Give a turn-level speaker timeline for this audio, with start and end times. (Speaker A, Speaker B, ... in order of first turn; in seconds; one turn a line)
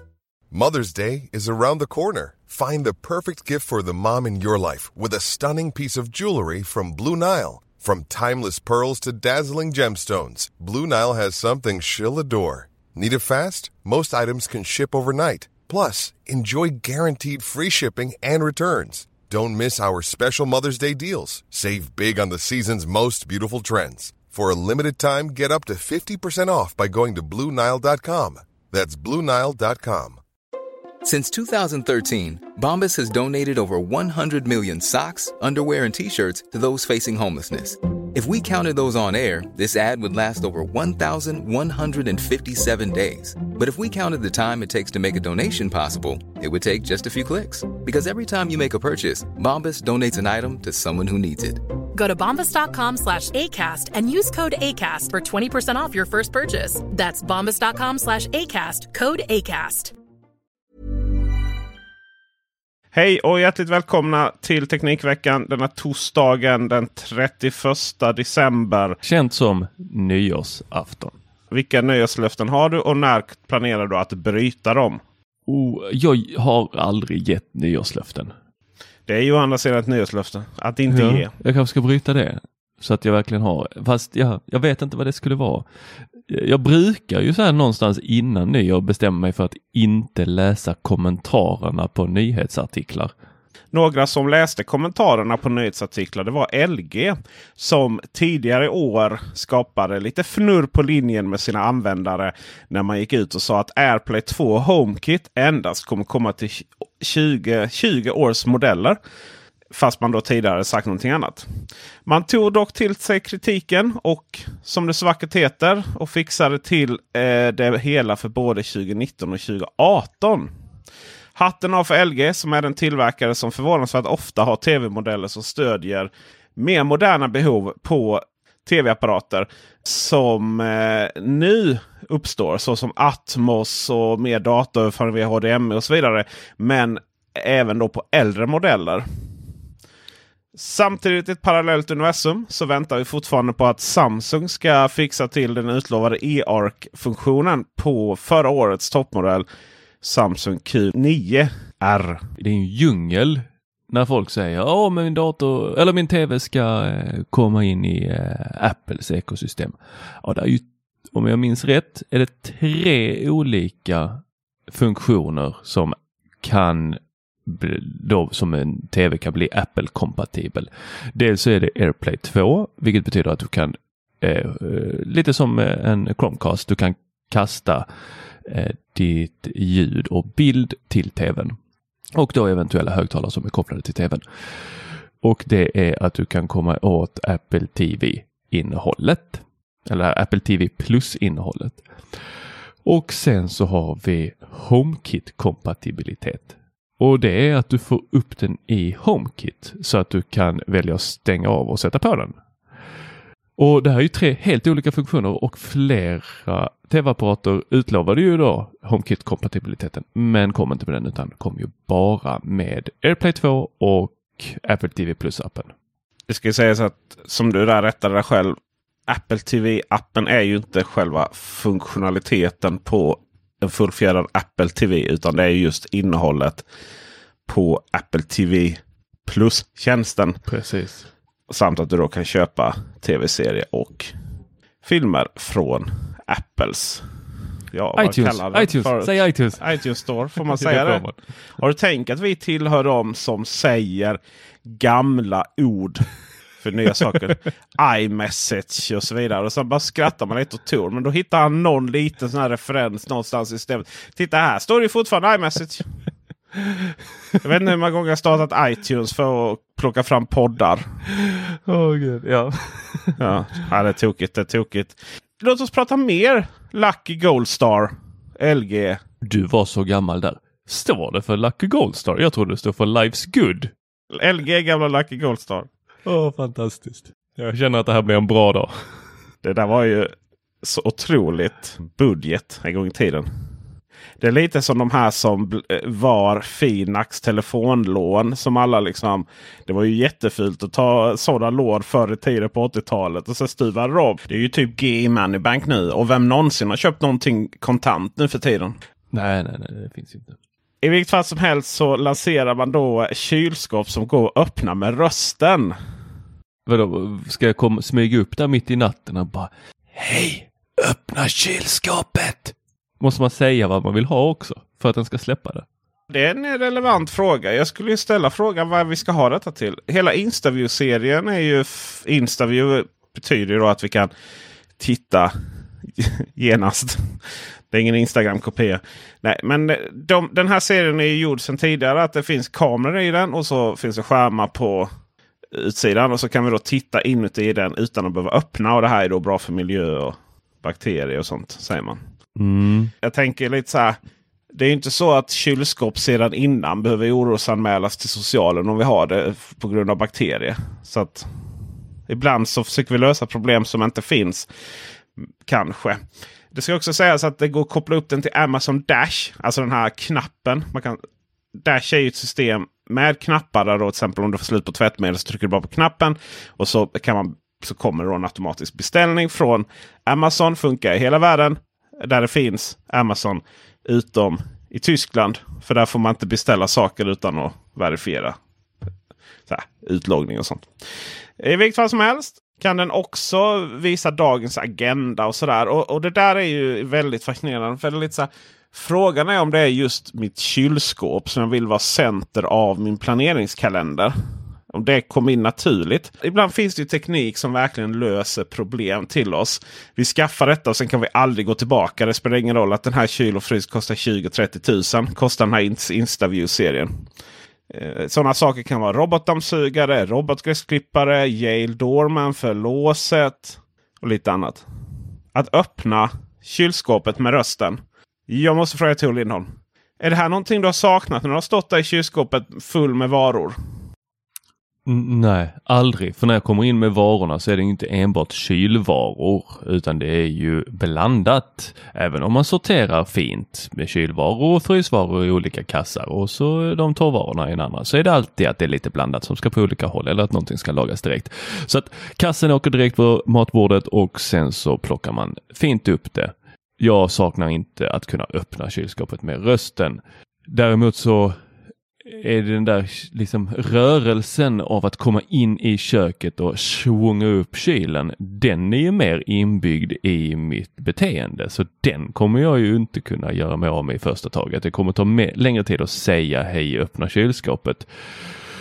Speaker A: 0.5-30.2
Speaker B: 31.0-51.6
Speaker C: 51.9-59.9
Speaker D: 62.9-69.0
Speaker E: 69.0-71.2
Speaker D: 71.5-75.0
Speaker E: 75.5-78.3
Speaker D: 79.1-81.3
Speaker E: 80.9-85.7
Speaker E: 86.3-93.1
Speaker D: 93.7-109.0
Speaker D: 109.7-111.5
Speaker D: 112.1-120.5
Speaker D: 121.4-139.1
Speaker D: 140.6-149.5
Speaker D: 150.0-152.2
Speaker E: 152.4-177.9
Speaker E: 178.5-181.6
Speaker E: 182.2-184.2
Speaker E: 185.2-191.9
Speaker E: 192.8-202.4
Speaker E: 203.6-215.7
Speaker D: 216.3-218.6
Speaker D: 219.1-226.7
Speaker D: 227.5-230.4
Speaker E: 230.5-231.1
Speaker D: 231.5-234.1
Speaker D: 234.8-237.1
Speaker D: 237.7-241.0
Speaker E: 237.9-239.8
Speaker E: 240.4-241.2
Speaker D: 241.6-246.0
Speaker D: 246.6-255.9
Speaker D: 257.4-260.8
Speaker E: 261.1-263.2
Speaker D: 263.2-269.0
Speaker E: 269.2-273.7
Speaker D: 274.1-275.7
Speaker E: 276.1-278.7
Speaker D: 279.4-280.1
Speaker D: 280.6-283.2
Speaker D: 284.2-298.8
Speaker E: 299.1-300.4
Speaker D: 300.8-305.7
Speaker E: 306.7-315.6
Speaker D: 316.1-324.1
Speaker D: 324.8-325.3
Speaker D: 326.0-327.2
Speaker D: 327.7-334.9
Speaker D: 335.5-342.0
Speaker E: 342.4-342.9
Speaker D: 343.0-344.0
Speaker D: 344.5-351.3
Speaker D: 352.1-354.5
Speaker D: 355.4-356.0
Speaker D: 356.5-361.0
Speaker D: 361.6-378.4
Speaker D: 379.5-380.7
Speaker D: 381.4-394.1
Speaker D: 394.7-406.9
Speaker D: 407.7-414.6
Speaker D: 415.4-423.6
Speaker E: 424.9-451.4
Speaker E: 452.0-468.4